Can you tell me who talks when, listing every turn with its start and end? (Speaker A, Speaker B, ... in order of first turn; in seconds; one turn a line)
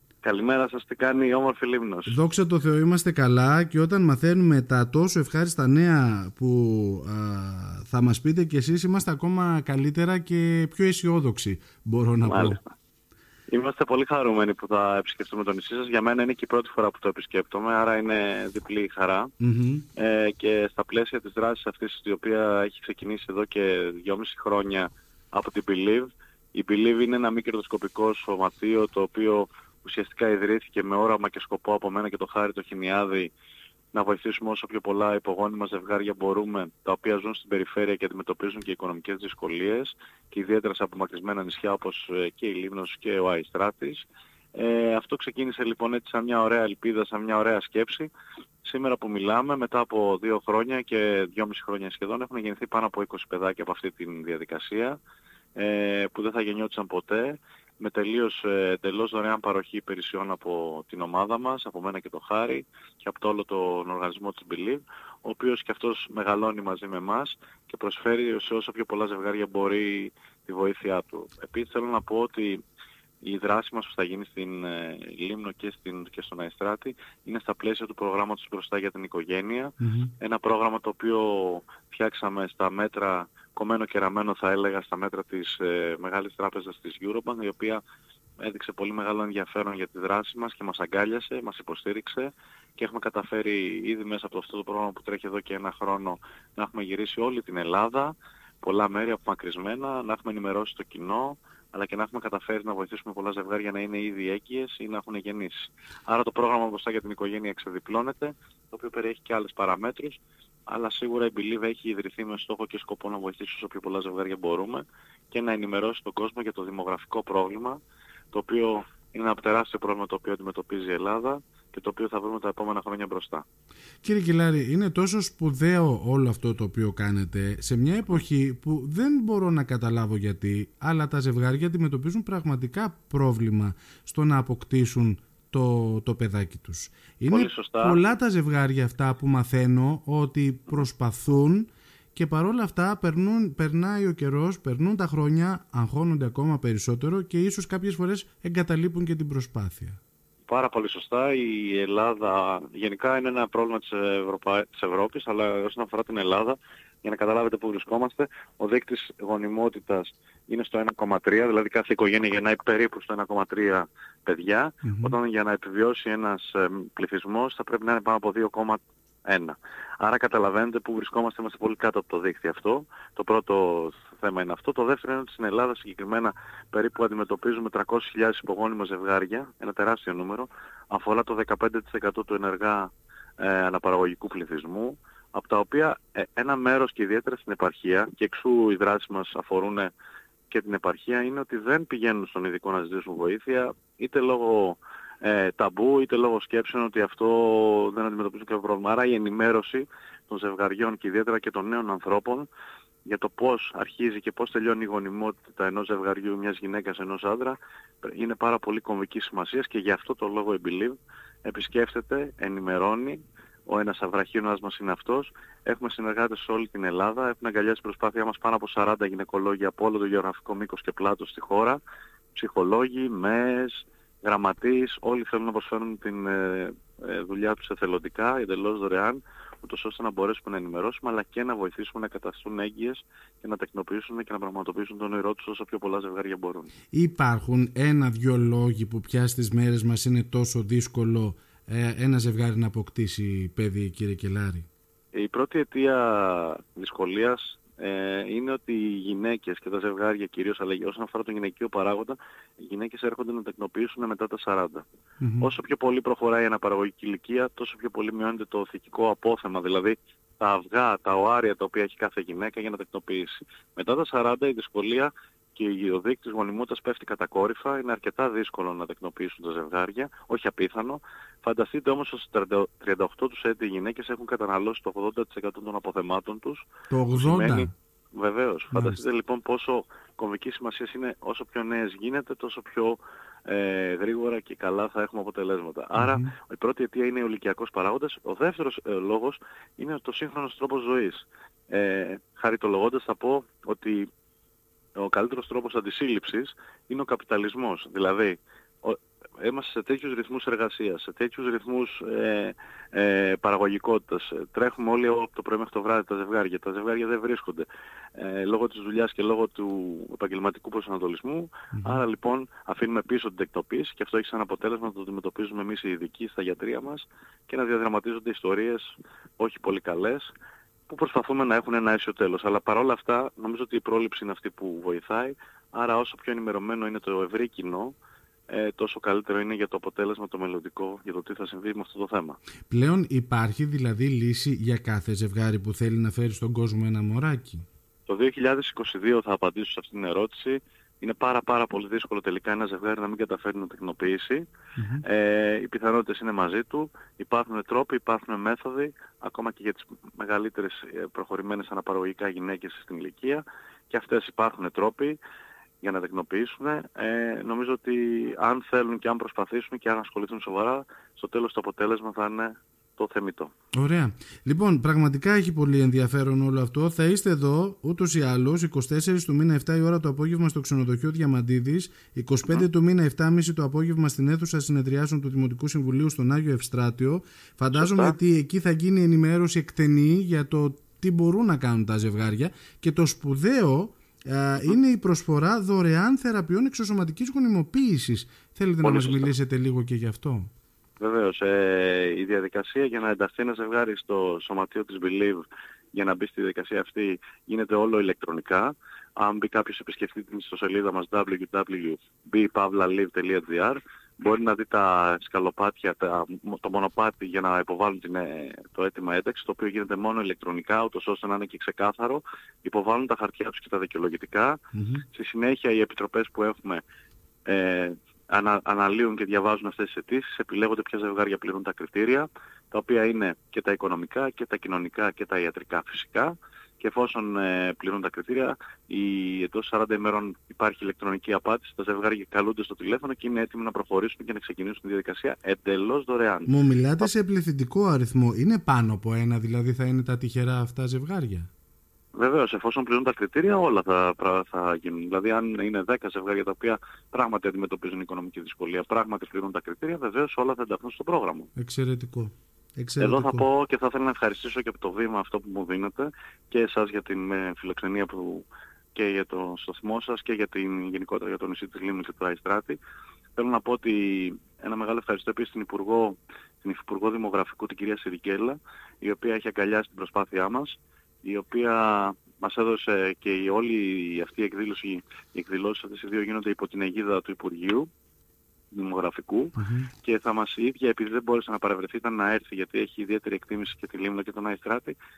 Speaker A: 0.2-2.1
Speaker B: 2.1-12.6
Speaker A: 12.2-12.7
Speaker A: 13.5-19.3
Speaker B: 19.4-19.8
Speaker A: 19.9-33.3
Speaker A: 33.9-48.1
Speaker A: 48.6-55.0
Speaker A: 55.5-72.6
Speaker A: 73.2-87.8
Speaker B: 79.8-80.1
Speaker A: 88.4-117.8
Speaker A: 118.3-123.4
Speaker B: 124.0-150.0
Speaker A: 137.3-138.0
Speaker A: 150.5-189.9
Speaker B: 164.8-165.2
Speaker A: 190.5-202.5
Speaker A: 203.0-221.8
Speaker A: 222.3-236.7
Speaker B: 236.9-244.7
Speaker A: 245.1-254.8
Speaker B: 255.2-255.5
Speaker A: 255.4-294.1
Speaker B: 276.9-277.7
Speaker B: 278.7-279.0
Speaker B: 285.9-286.3
Speaker A: 294.9-320.3
Speaker B: 311.7-312.0
Speaker A: 320.9-327.9
Speaker A: 328.5-332.4
Speaker B: 332.7-337.6
Speaker A: 338.1-344.5
Speaker B: 344.8-345.0
Speaker A: 345.0-355.2
Speaker A: 355.8-363.5
Speaker B: 363.7-390.5
Speaker A: 377.7-378.1
Speaker A: 388.8-389.3
Speaker A: 391.0-416.8
Speaker B: 414.7-415.0
Speaker A: 417.4-436.5
Speaker B: 436.5-441.5
Speaker A: 442.1-451.5
Speaker B: 451.6-453.4
Speaker A: 453.0-462.8
Speaker A: 463.4-477.9
Speaker A: 478.7-484.9
Speaker B: 479.6-479.9